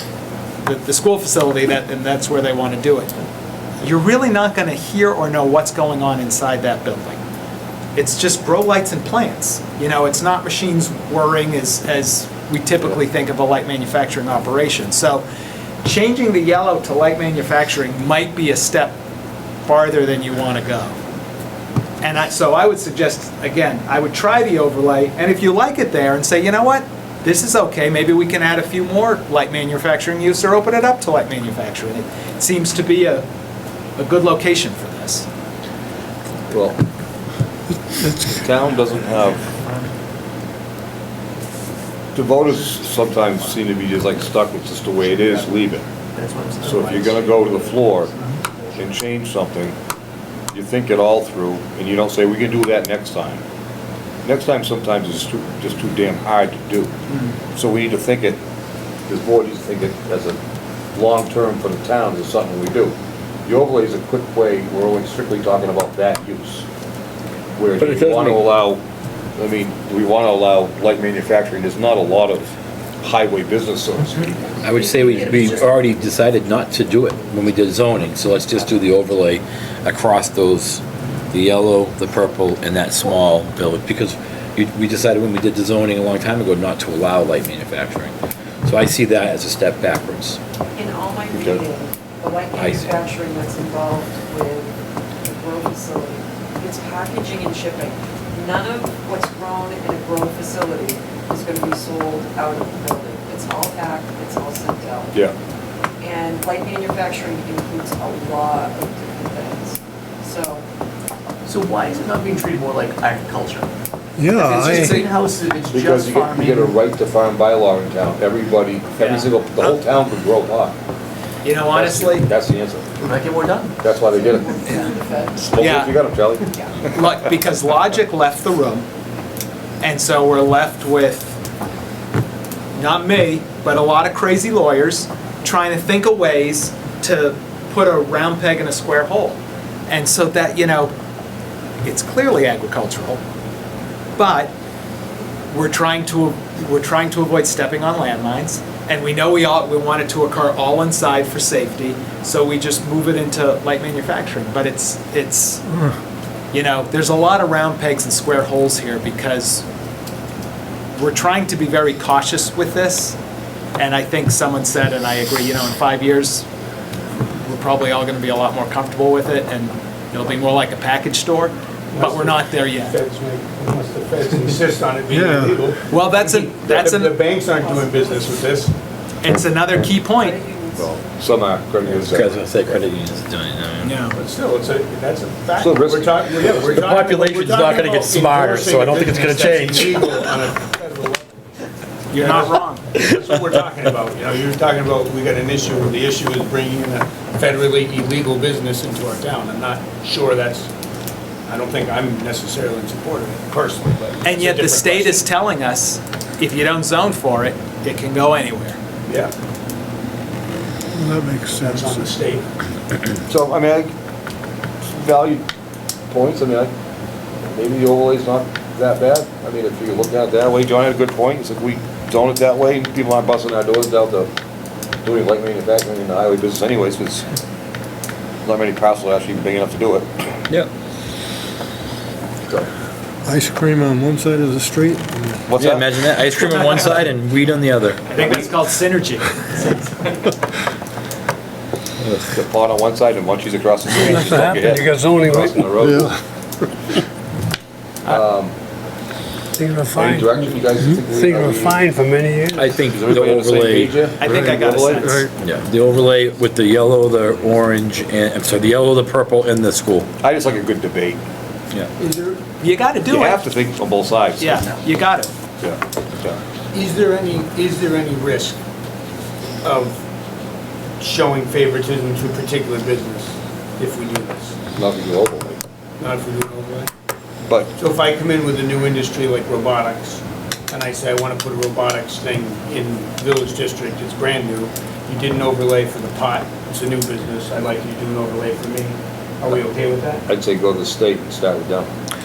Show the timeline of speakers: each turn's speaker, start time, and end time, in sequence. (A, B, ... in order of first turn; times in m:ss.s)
0:00.6-0:03.2 A
0:03.8-0:07.2 A
0:08.0-0:15.2 A
0:15.8-0:18.9 A
0:19.6-0:21.0 A
0:22.0-0:33.2 A
0:34.0-0:35.3 A
0:36.5-0:36.8 B
0:38.2-0:39.5 B
0:39.6-0:39.8 C
0:42.1-0:45.8 B
0:46.1-0:48.4 C
0:46.6-0:48.1 B
0:48.7-0:49.7 B
0:50.5-0:53.4 B
0:54.2-0:57.0 B
0:57.5-0:58.4 B
0:59.1-1:00.4 B
1:00.9-1:02.9 B
1:03.4-1:06.6 B
1:07.6-1:08.8 B
1:07.8-1:08.5 D
1:09.4-1:12.5 B
1:13.0-1:14.5 B
1:14.6-1:28.1 D
1:15.1-1:15.6 C
1:28.6-1:30.4 D
1:30.7-1:45.2 E
1:31.3-1:31.6 B
1:32.5-1:33.0 D
1:46.0-1:50.6 E
1:51.4-1:53.7 C
1:54.2-1:54.9 F
1:54.4-1:55.1 A
1:54.5-1:56.7 C
1:55.7-2:00.8 B
1:59.0-1:59.3 A
2:01.4-2:02.3 A
2:01.7-2:02.9 B
2:03.0-2:03.8 C
2:03.8-2:04.8 B
2:04.1-2:05.4 E
2:05.4-2:06.6 B
2:05.6-2:05.9 A
2:06.9-2:08.8 A
2:09.8-2:11.4 A
2:12.7-2:19.4 A
2:19.9-2:20.9 A
2:21.8-2:23.2 A
2:24.2-2:24.5 A
2:25.5-2:35.6 A
2:36.5-2:39.6 A
2:40.9-2:43.2 A
2:43.8-2:46.5 A
2:47.4-2:52.9 A
2:51.9-2:58.7 G
2:55.1-2:55.6 F
2:55.9-2:57.2 A
2:57.5-2:58.4 E
2:59.2-3:00.4 A
3:00.1-3:01.0 E
3:00.7-3:02.4 B
3:02.1-3:04.0 D
3:03.8-3:04.2 A
3:04.1-3:11.3 G
3:05.6-3:06.8 B
3:06.5-3:10.1 D
3:12.1-3:12.8 A
3:12.1-3:20.7 G
3:21.5-3:25.3 G
3:24.2-3:28.8 A
3:29.1-3:29.3 G
3:30.9-3:32.1 F
3:31.5-3:32.4 G
3:33.3-3:33.9 B
3:34.8-3:35.4 B
3:36.1-3:36.7 B
3:37.4-3:44.3 B
3:45.0-3:47.3 B
3:48.4-3:50.2 B
3:53.2-3:55.3 F
3:55.4-3:55.9 B
3:55.5-3:58.0 D
3:58.1-4:00.2 A
4:02.0-4:02.3 D
4:02.3-4:06.2 B
4:04.0-4:05.7 H
4:05.8-4:06.1 F
4:08.0-4:08.5 B
4:09.6-4:12.8 H
4:09.9-4:11.8 B
4:12.5-4:13.9 D
4:12.8-4:15.3 B
4:14.2-4:15.3 A
4:14.2-4:14.5 F
4:15.4-4:20.1 D
4:20.2-4:21.2 B
4:22.0-4:22.4 G
4:22.6-4:23.4 A
4:23.1-4:24.6 B
4:24.4-4:25.3 A
4:25.6-4:26.4 B
4:26.7-4:28.6 G
4:29.6-4:30.0 G
4:31.0-4:34.6 G
4:34.7-4:35.6 B
4:36.0-4:36.9 G
4:37.4-4:37.7 B
4:37.8-4:50.2 G
4:50.3-4:51.9 B